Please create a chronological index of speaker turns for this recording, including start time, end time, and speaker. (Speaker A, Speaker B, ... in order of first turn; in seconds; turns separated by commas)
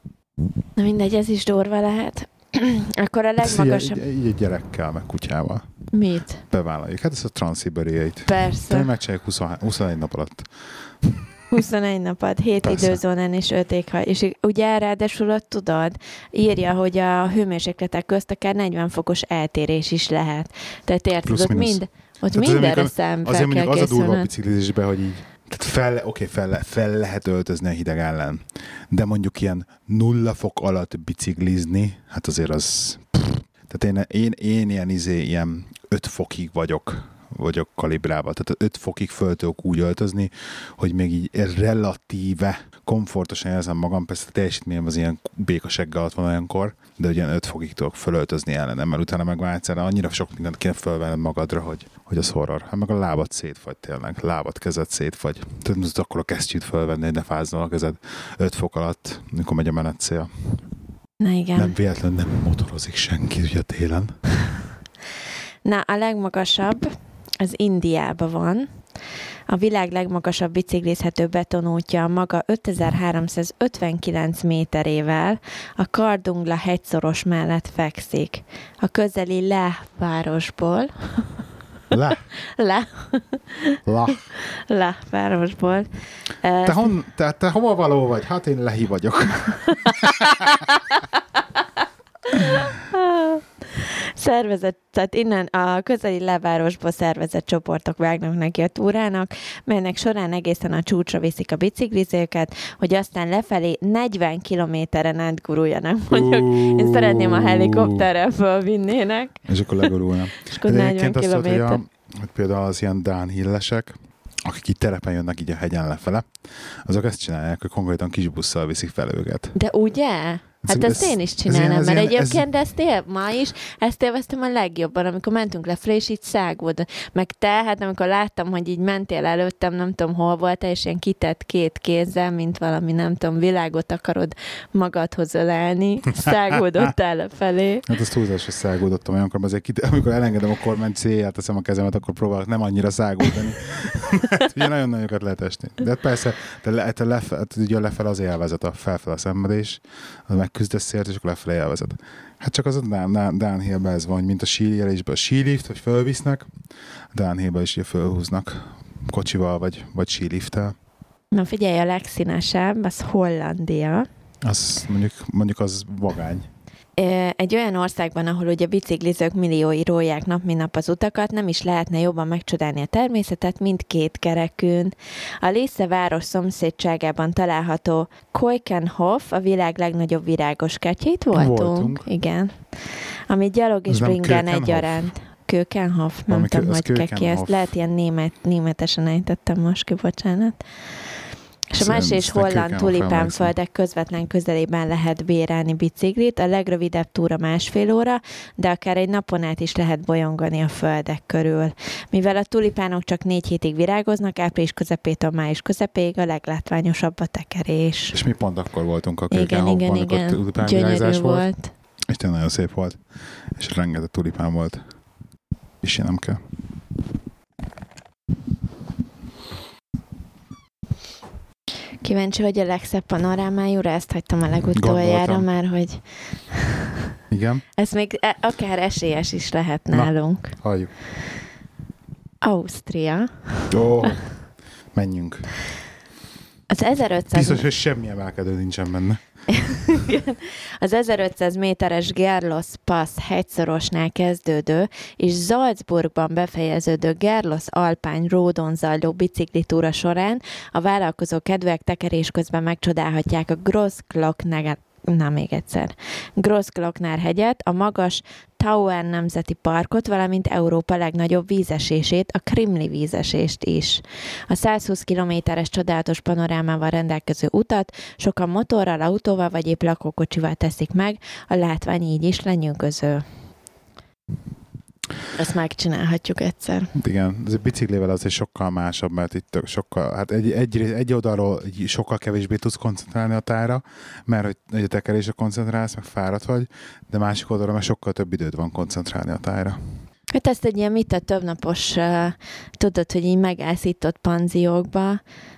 Speaker A: 0.8-4.0, Speaker B: 3.4-5.9, Speaker A: 5.9-6.4, Speaker B: 6.4-11.2, Speaker A: 8.3-8.9, Speaker A: 11.5-24.3, Speaker B: 12.6-13.0, Speaker B: 21.2-60.7, Speaker A: 61.2-61.8, Speaker B: 61.6-64.4, Speaker A: 65.6-68.9, Speaker A: 69.5-81.4, Speaker B: 81.9-82.2, Speaker A: 82.3-83.8, Speaker B: 83.8-84.3, Speaker A: 84.4-86.9, Speaker B: 86.6-90.1, Speaker A: 92.3-109.9, Speaker B: 106.1-108.0, Speaker B: 109.5-119.6, Speaker A: 110.5-111.8, Speaker A: 119.5-137.9, Speaker B: 120.6-122.5, Speaker B: 137.9-156.5, Speaker B: 157.1-160.8, Speaker A: 161.3-164.1, Speaker B: 164.4-166.5, Speaker A: 167.0-190.7, Speaker B: 181.3-182.1, Speaker B: 183.9-185.1, Speaker B: 186.3-187.7, Speaker A: 191.7-208.2, Speaker B: 191.8-193.5, Speaker B: 208.1-211.5, Speaker A: 209.3-211.7, Speaker B: 212.1-215.0, Speaker B: 215.8-216.4, Speaker A: 222.0-226.8, Speaker B: 224.8-225.5, Speaker B: 227.3-227.6, Speaker A: 227.8-230.6, Speaker B: 229.9-230.9, Speaker A: 232.4-233.7, Speaker B: 233.7-235.5, Speaker A: 236.7-237.6, Speaker B: 237.3-239.7, Speaker A: 239.5-273.4, Speaker A: 275.3-276.9, Speaker B: 276.9-290.1, Speaker A: 290.3-295.2